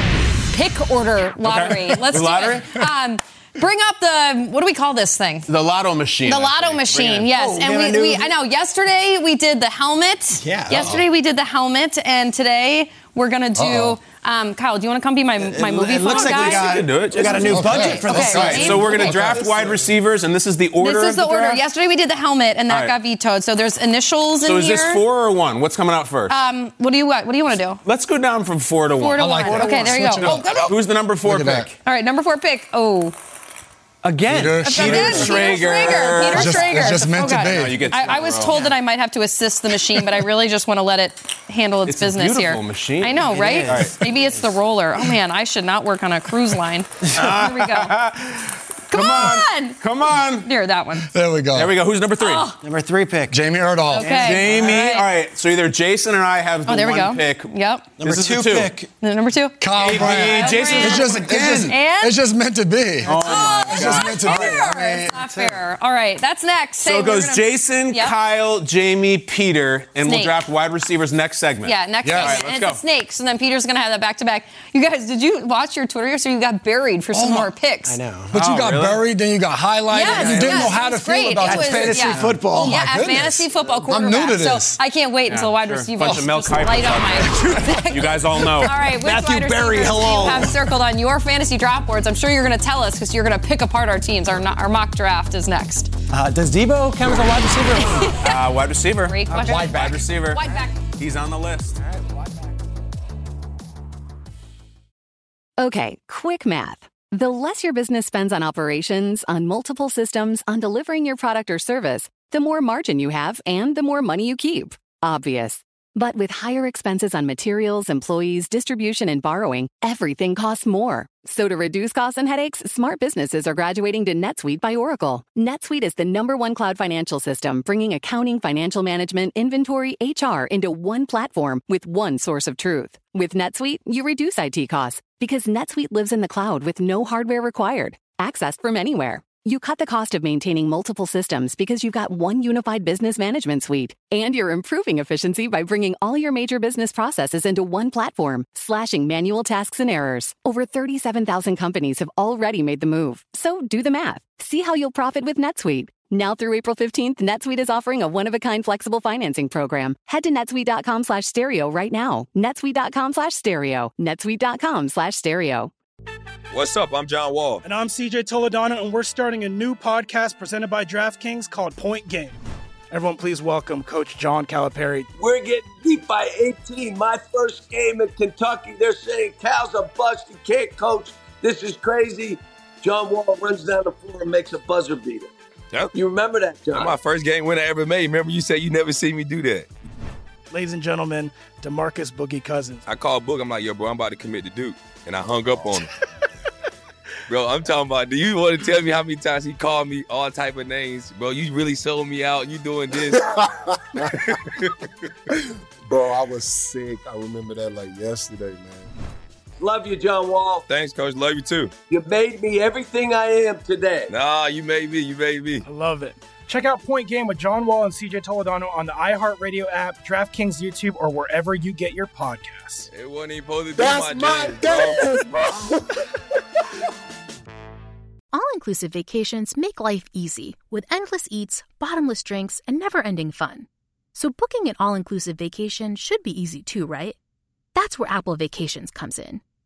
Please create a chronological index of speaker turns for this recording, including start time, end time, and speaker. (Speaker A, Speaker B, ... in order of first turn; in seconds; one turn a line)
Speaker A: 0.5-5.5
Speaker B: 1.4-2.8
Speaker B: 5.5-7.3
Speaker A: 6.2-19.2
Speaker C: 7.3-8.3
Speaker C: 10.4-11.0
Speaker D: 13.6-14.0
Speaker C: 15.4-19.8
Speaker B: 16.1-21.6
Speaker D: 17.4-19.7
Speaker A: 20.8-25.0
Speaker B: 22.7-22.9
Speaker B: 24.4-26.4
Speaker A: 26.3-27.8
Speaker B: 27.8-31.7
Speaker A: 29.0-30.7
Speaker D: 29.1-31.7
Speaker A: 31.8-33.1
Speaker C: 34.0-35.2
Speaker D: 34.2-35.7
Speaker A: 34.6-47.9
Speaker B: 34.7-38.5
Speaker D: 36.3-37.9
Speaker C: 38.5-38.8
Speaker B: 41.9-44.0
Speaker C: 43.3-44.4
Speaker B: 47.1-50.5
Speaker A: 48.9-49.8
Speaker A: 50.4-51.1
Speaker D: 51.1-51.7
Speaker B: 51.5-52.5
Speaker A: 52.2-52.6
Speaker C: 52.6-53.4
Speaker D: 53.3-54.2
Speaker C: 53.9-54.6
Speaker A: 53.9-55.0
Speaker B: 54.1-58.7
Speaker A: 56.6-57.9
Speaker C: 58.0-58.9
Speaker A: 59.0-62.1
Speaker D: 59.6-65.4
Speaker B: 59.7-61.7
Speaker C: 60.5-61.7
Speaker B: 63.0-64.7
Speaker A: 63.2-68.1
Speaker B: 66.8-72.8
Speaker A: 70.0-70.3
Speaker A: 71.6-78.0
Speaker D: 72.0-72.4
Speaker D: 77.1-77.5
Speaker C: 77.8-78.4
Speaker D: 78.3-84.8
Speaker B: 78.3-79.0
Speaker A: 79.9-95.9
Speaker B: 80.1-80.8
Speaker C: 81.4-82.8
Speaker B: 85.3-88.8
Speaker C: 88.8-90.6
Speaker C: 96.1-98.2
Speaker A: 97.8-98.4
Speaker B: 98.2-101.8
Speaker A: 99.0-100.8
Speaker D: 99.3-100.0
Speaker E: 105.6-165.7
Speaker F: 166.5-167.6
Speaker G: 167.6-172.4
Speaker G: 172.9-175.1
Speaker H: 175.2-185.3
Speaker H: 185.9-186.9
Speaker F: 186.7-189.7
Speaker G: 190.5-192.8
Speaker F: 192.9-195.9
Speaker F: 197.3-203.2
Speaker I: 203.4-204.1
Speaker F: 204.2-204.7
Speaker I: 205.9-208.9
Speaker H: 209.6-210.6
Speaker F: 210.7-211.7
Speaker H: 211.9-214.1
Speaker F: 214.1-215.6
Speaker G: 215.6-222.9
Speaker F: 222.9-225.0
Speaker J: 228.3-237.2
Speaker J: 237.7-239.4